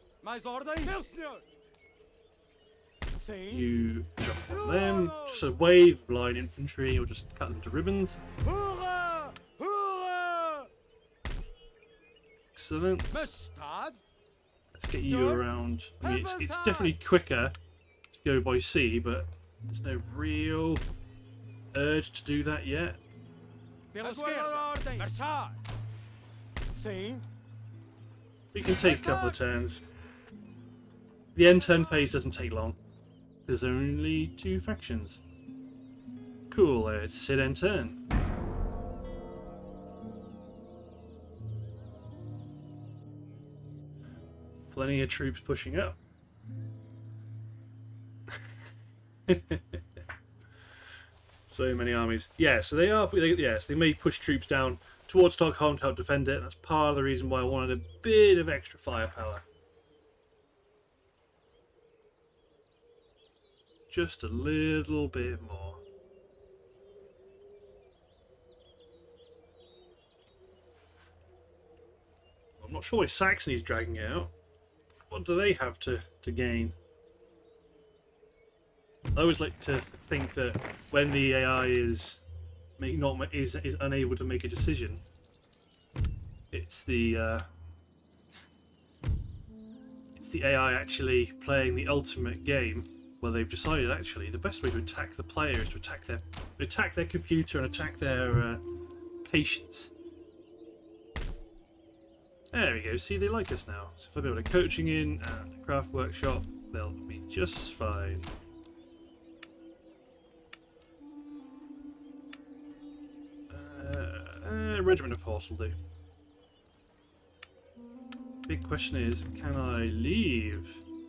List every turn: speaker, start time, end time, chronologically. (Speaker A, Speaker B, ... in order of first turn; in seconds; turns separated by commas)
Speaker A: 0.2-1.4, Speaker B: 3.5-8.2, Speaker A: 4.9-5.2, Speaker A: 8.4-10.7, Speaker B: 12.5-13.3, Speaker A: 13.1-14.0, Speaker B: 14.7-17.5, Speaker A: 16.0-16.9, Speaker B: 18.1-20.8, Speaker B: 21.7-23.0, Speaker A: 23.9-25.6, Speaker A: 26.7-27.2, Speaker B: 28.5-29.8, Speaker B: 31.3-32.8, Speaker B: 33.5-35.2, Speaker B: 36.5-38.0, Speaker B: 44.7-46.0, Speaker B: 49.3-49.8, Speaker B: 51.5-59.4, Speaker B: 63.9-65.8, Speaker B: 72.6-74.3, Speaker B: 75.1-76.8, Speaker B: 79.1-82.2, Speaker B: 82.8-85.0, Speaker B: 86.5-87.5, Speaker B: 90.1-98.6, Speaker B: 99.2-99.9, Speaker B: 102.5-108.3, Speaker B: 113.5-115.8, Speaker B: 118.5-120.8